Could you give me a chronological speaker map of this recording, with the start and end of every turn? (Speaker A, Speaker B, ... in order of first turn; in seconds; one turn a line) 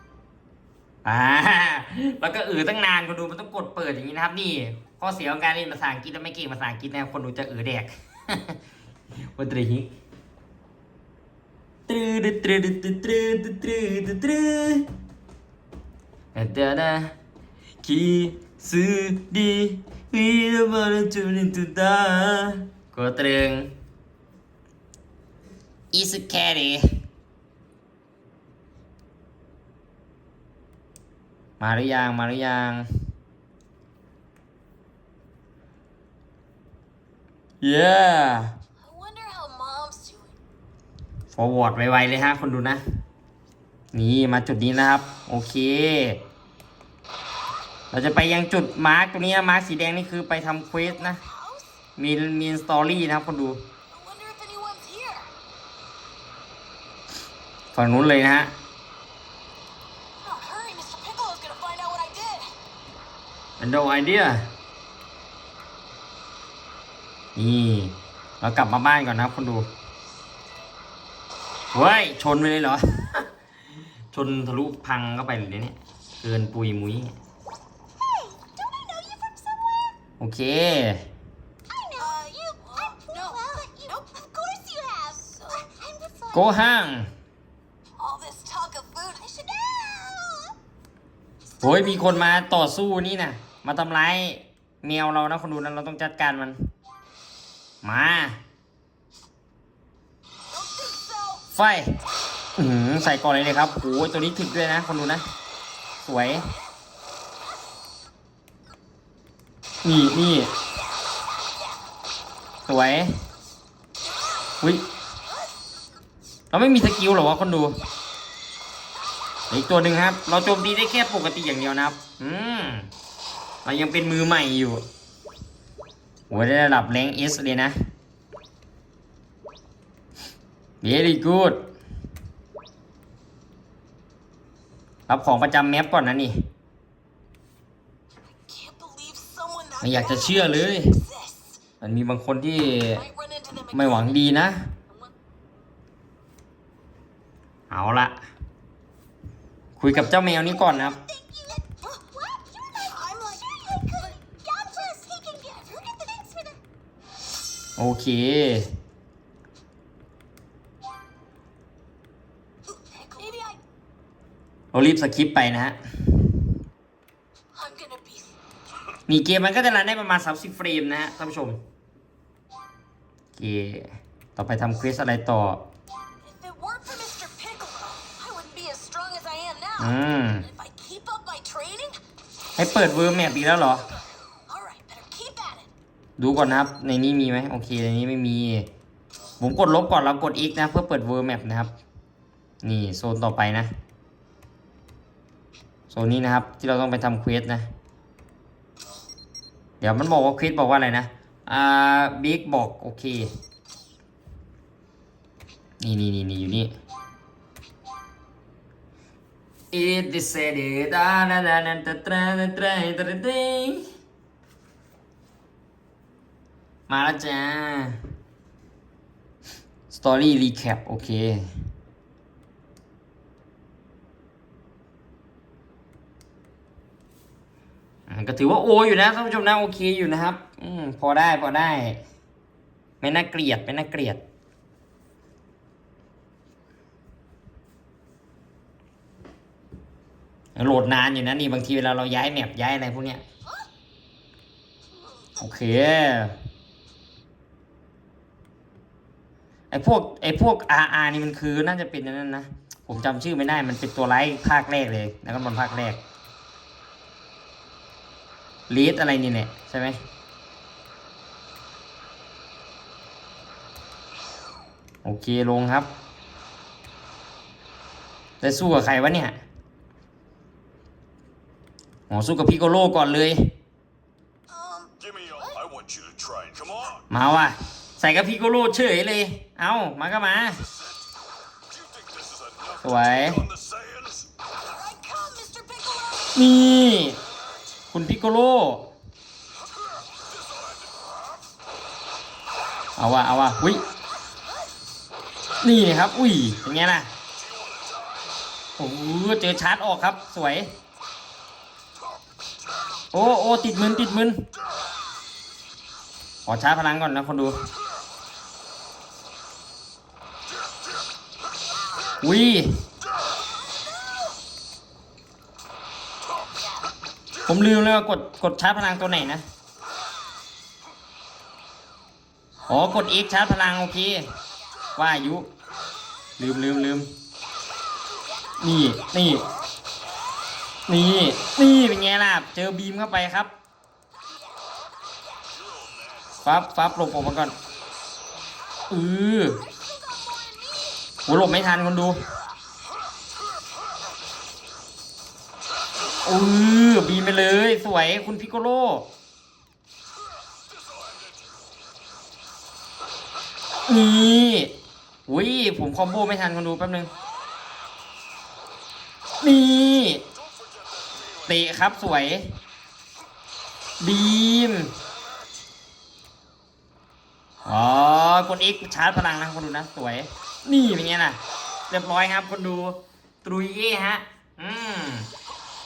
Speaker A: 1.0-8.6
Speaker A: 9.3-9.9
Speaker A: 11.9-14.8
Speaker A: 16.3-17.1
Speaker A: 17.8-23.7
Speaker A: 25.9-26.9
Speaker A: 31.6-32.9
Speaker A: 37.6-38.5
Speaker B: 38.8-40.4
Speaker A: 41.3-42.8
Speaker A: 43.9-46.2
Speaker A: 47.9-51.2
Speaker B: 51.0-51.7
Speaker A: 52.0-53.6
Speaker B: 53.9-55.3
Speaker A: 57.7-58.5
Speaker B: 60.2-62.5
Speaker A: 63.6-64.5
Speaker A: 67.3-69.7
Speaker A: 71.7-73.2
Speaker A: 74.1-77.1
Speaker B: 78.0-80.0
Speaker A: 80.2-81.0
Speaker B: 81.7-86.5
Speaker A: 86.3-87.1
Speaker B: 88.0-90.5
Speaker A: 91.6-96.6
Speaker B: 91.6-92.2
Speaker A: 97.8-98.4
Speaker B: 100.5-101.4
Speaker A: 101.5-101.9
Speaker A: 102.6-105.2
Speaker A: 106.0-106.5
Speaker A: 109.8-110.5
Speaker A: 112.7-113.2
Speaker A: 114.6-114.8
Speaker A: 116.5-117.8
Speaker A: 119.5-122.9
Speaker A: 123.6-124.8
Speaker A: 126.3-127.7
Speaker A: 130.8-131.6
Speaker A: 135.1-136.3
Speaker B: 138.3-141.6
Speaker A: 139.8-140.9
Speaker A: 141.8-143.0
Speaker B: 142.9-144.2
Speaker A: 143.7-144.7
Speaker A: 147.7-148.2
Speaker A: 149.8-151.0
Speaker B: 150.7-156.6
Speaker A: 157.8-158.7
Speaker B: 162.7-163.6
Speaker A: 164.7-166.4
Speaker B: 167.5-168.3
Speaker A: 169.1-171.6
Speaker A: 173.3-175.6
Speaker B: 176.2-182.0
Speaker A: 179.8-180.4
Speaker A: 182.6-183.9
Speaker B: 182.6-182.9
Speaker B: 184.5-185.7
Speaker A: 186.2-188.7
Speaker A: 189.4-191.7
Speaker A: 192.6-193.7
Speaker A: 195.9-197.6
Speaker A: 199.8-203.3
Speaker A: 205.8-206.7
Speaker A: 209.7-213.9
Speaker A: 216.9-218.0
Speaker A: 219.9-221.5
Speaker A: 228.1-232.0
Speaker A: 233.0-234.2
Speaker A: 240.5-243.2
Speaker B: 245.0-245.4
Speaker A: 245.4-246.4
Speaker A: 249.7-256.0
Speaker A: 258.7-260.0
Speaker A: 265.0-265.9
Speaker A: 268.4-269.4
Speaker A: 272.1-273.5
Speaker B: 274.5-275.9
Speaker C: 275.9-276.6
Speaker B: 276.6-276.9
Speaker A: 277.1-280.6
Speaker C: 281.9-282.6
Speaker A: 282.8-283.5
Speaker C: 283.7-284.2
Speaker B: 284.4-286.4
Speaker A: 286.3-287.2
Speaker A: 287.9-288.9
Speaker A: 293.0-293.8
Speaker A: 295.6-297.1
Speaker A: 298.8-300.7
Speaker A: 303.1-304.4
Speaker A: 306.4-307.6
Speaker A: 312.2-312.8
Speaker A: 317.4-319.4
Speaker A: 322.6-324.2
Speaker B: 322.8-323.2
Speaker A: 324.9-325.5
Speaker A: 326.4-327.1
Speaker A: 328.6-329.4
Speaker A: 330.9-333.5
Speaker B: 334.2-335.7
Speaker A: 336.4-337.5
Speaker A: 338.9-339.6
Speaker B: 339.5-341.1
Speaker A: 341.3-342.2
Speaker A: 346.2-349.0
Speaker A: 353.9-354.7
Speaker A: 355.3-357.1
Speaker A: 359.4-360.2
Speaker A: 361.4-362.5
Speaker A: 364.0-364.9
Speaker A: 367.6-371.4
Speaker A: 371.9-375.3